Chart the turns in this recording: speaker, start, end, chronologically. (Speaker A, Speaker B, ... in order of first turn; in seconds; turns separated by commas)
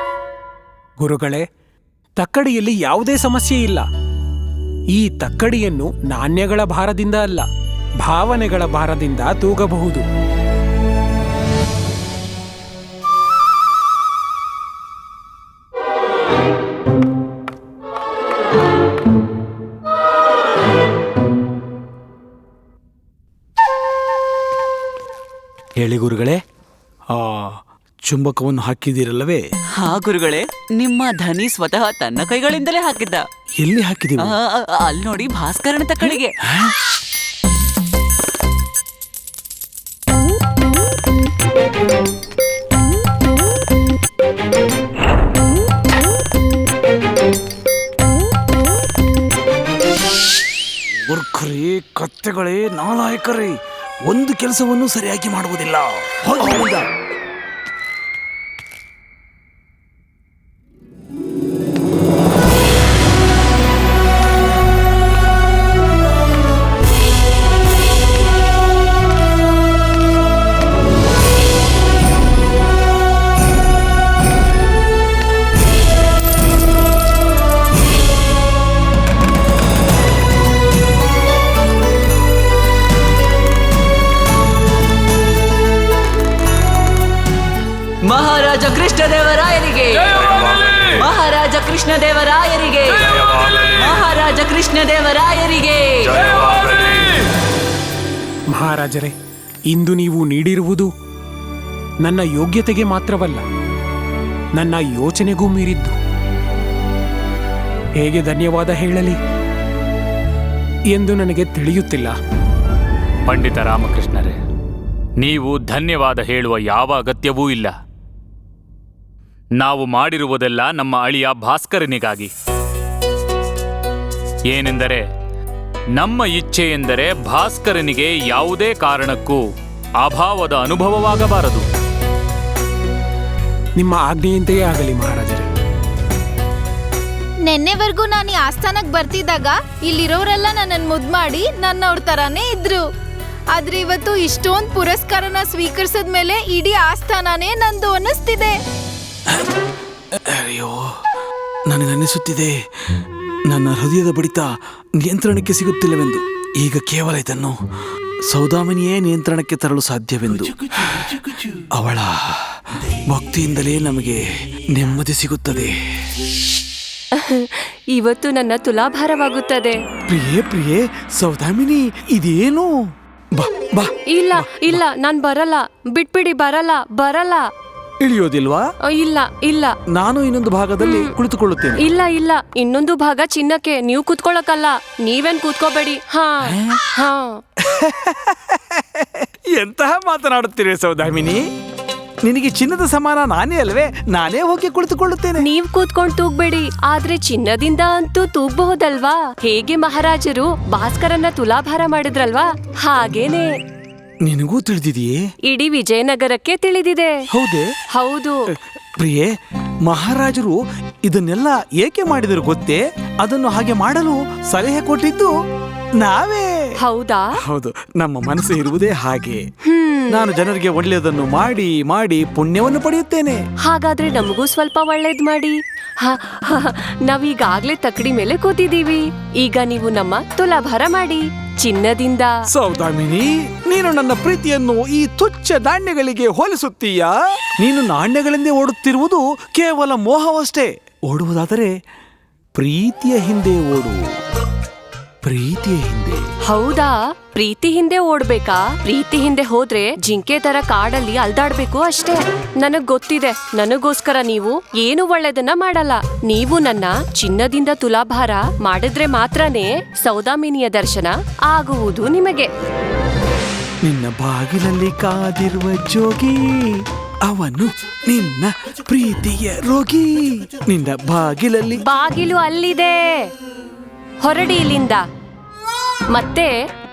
Speaker A: 1.0-1.4, Speaker A: 2.1-3.8, Speaker A: 4.9-7.4, Speaker A: 8.0-10.0, Speaker B: 25.8-26.4, Speaker B: 27.1-29.4, Speaker C: 29.8-33.2, Speaker B: 33.6-34.3, Speaker C: 34.2-36.3, Speaker B: 36.1-36.7, Speaker B: 51.0-56.9, Speaker C: 88.0-96.9, Speaker D: 96.7-96.9, Speaker A: 98.5-99.1, Speaker A: 99.7-100.9, Speaker A: 102.0-103.4, Speaker A: 104.5-105.9, Speaker A: 108.0-109.2, Speaker A: 110.9-112.1, Speaker D: 113.2-114.4, Speaker D: 115.2-117.7, Speaker D: 119.6-122.3, Speaker D: 124.5-125.0, Speaker D: 126.0-129.4, Speaker D: 130.0-131.7, Speaker A: 133.8-135.4, Speaker E: 137.4-142.8, Speaker E: 143.5-148.5, Speaker B: 150.2-150.9, Speaker B: 151.7-152.5, Speaker B: 153.5-157.6, Speaker B: 158.3-164.2, Speaker B: 164.7-165.7, Speaker F: 167.1-169.8, Speaker B: 170.1-172.7, Speaker B: 173.3-174.8, Speaker F: 174.1-177.5, Speaker B: 178.0-178.6, Speaker F: 178.8-179.8, Speaker B: 179.9-181.8, Speaker F: 180.8-181.1, Speaker F: 181.8-187.4, Speaker B: 187.6-191.5, Speaker B: 192.2-195.4, Speaker F: 195.4-203.5, Speaker B: 204.2-205.2, Speaker F: 205.5-207.2, Speaker B: 207.3-207.7, Speaker F: 207.9-208.4, Speaker B: 209.0-209.3, Speaker B: 209.8-215.3, Speaker B: 216.0-216.5, Speaker F: 216.8-217.2, Speaker B: 217.4-219.4, Speaker F: 219.7-220.2, Speaker B: 220.1-223.4, Speaker F: 223.6-232.3, Speaker B: 232.5-241.7, Speaker B: 242.5-244.0, Speaker B: 245.2-246.2, Speaker F: 246.5-262.5, Speaker B: 263.8-266.7, Speaker B: 267.2-271.8, Speaker F: 271.8-273.3, Speaker F: 274.2-275.0, Speaker F: 276.1-276.5